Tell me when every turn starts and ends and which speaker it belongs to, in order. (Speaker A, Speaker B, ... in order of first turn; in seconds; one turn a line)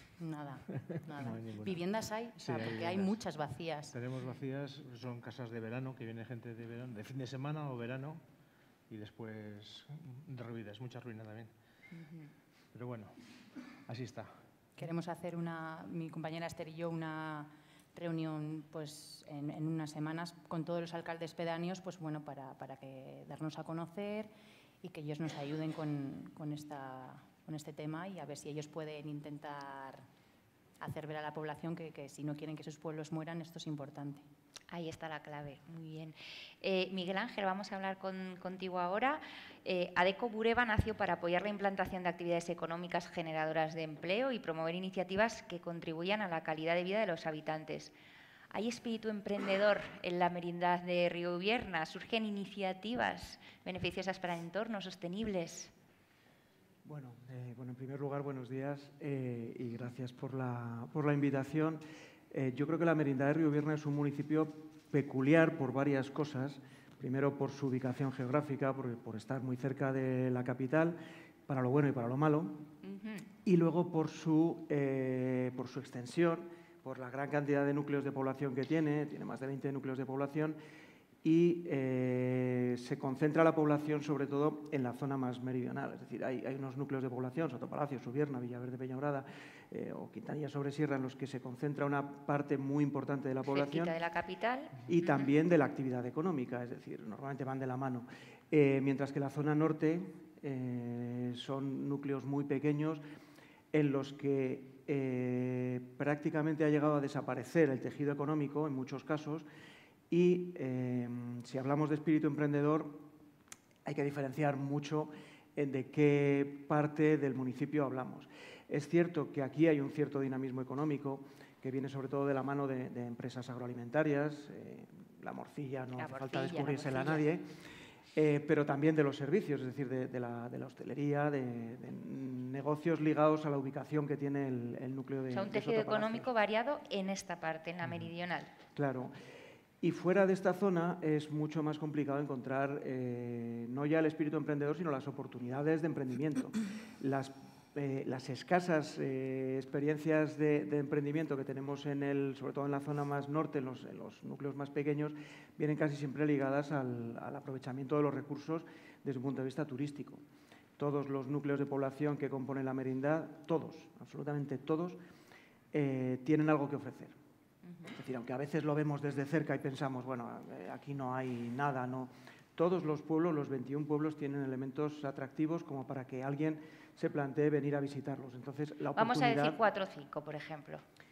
Speaker A: 0.2-4.0
Speaker B: 1.1-1.8
Speaker B: 2.4-3.2
Speaker B: 3.9-8.2
Speaker B: 8.9-11.5
Speaker B: 12.7-13.2
Speaker B: 13.9-14.3
Speaker A: 14.8-24.3
Speaker A: 24.8-30.0
Speaker A: 30.8-34.2
Speaker C: 34.7-47.9
Speaker C: 48.5-55.7
Speaker D: 56.9-72.6
Speaker C: 72.8-73.3
Speaker D: 73.5-80.6
Speaker D: 81.2-94.0
Speaker C: 93.5-95.3
Speaker D: 94.8-103.0
Speaker D: 103.7-109.5
Speaker D: 110.1-113.1
Speaker D: 113.8-127.5
Speaker C: 126.0-127.3
Speaker D: 128.2-136.3
Speaker C: 135.3-138.5
Speaker D: 138.8-139.1
Speaker D: 139.8-160.2
Speaker D: 160.8-165.0
Speaker D: 165.7-167.2
Speaker D: 167.9-179.6
Speaker C: 178.9-180.8